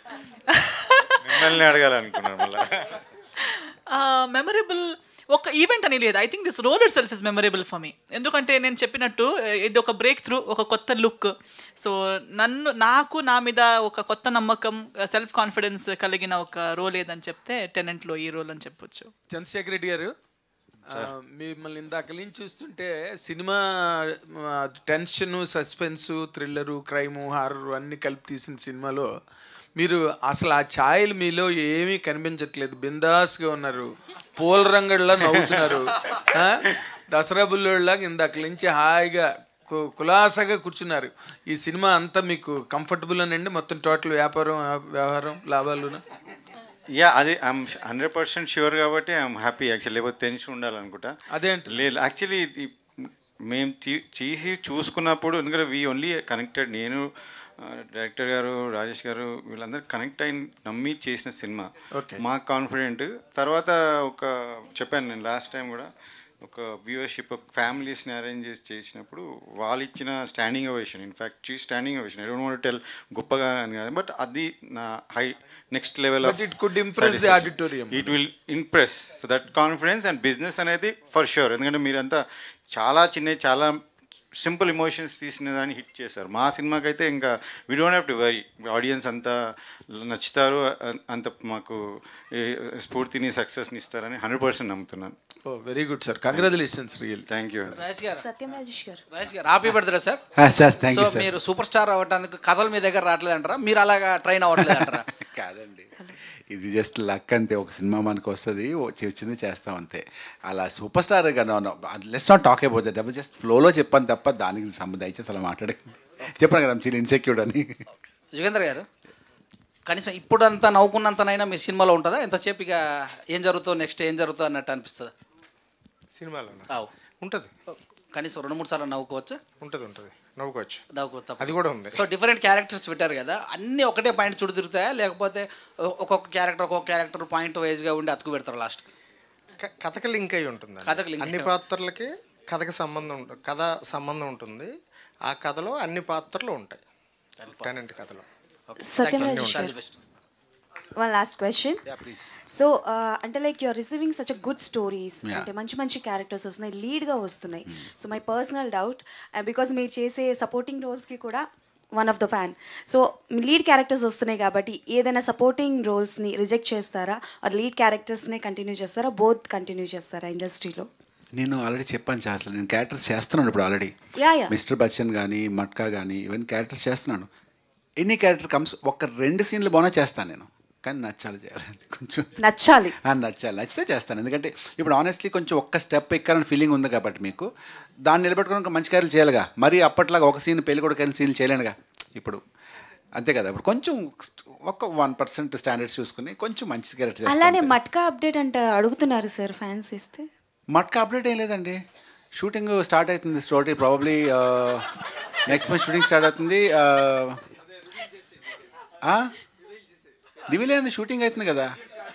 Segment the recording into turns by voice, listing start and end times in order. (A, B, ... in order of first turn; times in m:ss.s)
0:00.5-0:01.6 A
0:01.2-0:03.0 B
0:03.4-0:19.1 A
0:19.3-0:20.1 C
0:20.9-0:29.1 C
0:29.8-0:46.0 C
0:46.9-0:51.1 B
0:51.3-0:51.8 C
0:51.7-1:05.9 B
1:02.0-1:02.2 C
1:06.4-1:23.8 B
1:16.2-1:18.2 C
1:24.4-1:35.1 B
1:35.5-1:37.3 C
1:36.3-1:36.6 B
1:37.3-1:37.8 B
1:37.7-1:38.2 D
1:38.2-1:39.0 E
1:39.1-1:40.2 D
1:40.4-1:41.4 F
1:40.8-1:45.0 D
1:44.7-1:57.8 F
1:58.3-1:58.9 D
1:59.9-2:05.1 D
2:06.2-2:07.5 G
2:07.7-2:09.4 D
2:09.6-2:10.8 G
2:10.9-2:18.9 D
2:11.4-2:12.0 G
2:19.6-2:24.7 G
2:20.8-2:21.5 D
2:25.3-2:26.8 G
2:27.4-2:27.7 D
2:27.5-2:28.3 G
2:28.7-2:29.9 D
2:28.8-2:29.8 E
2:29.2-2:29.7 G
2:31.0-2:31.8 E
2:31.9-2:32.2 D
2:32.5-2:50.9 E
2:51.4-2:53.9 F
2:54.2-2:54.5 E
2:54.5-2:57.3 F
2:58.0-3:02.4 F
3:02.4-3:03.0 E
3:03.0-3:07.5 F
3:08.1-3:12.4 F
3:13.1-3:17.7 F
3:17.3-3:20.3 E
3:20.7-3:21.8 F
3:22.4-3:27.4 F
3:29.0-3:29.3 F
3:30.5-3:31.7 F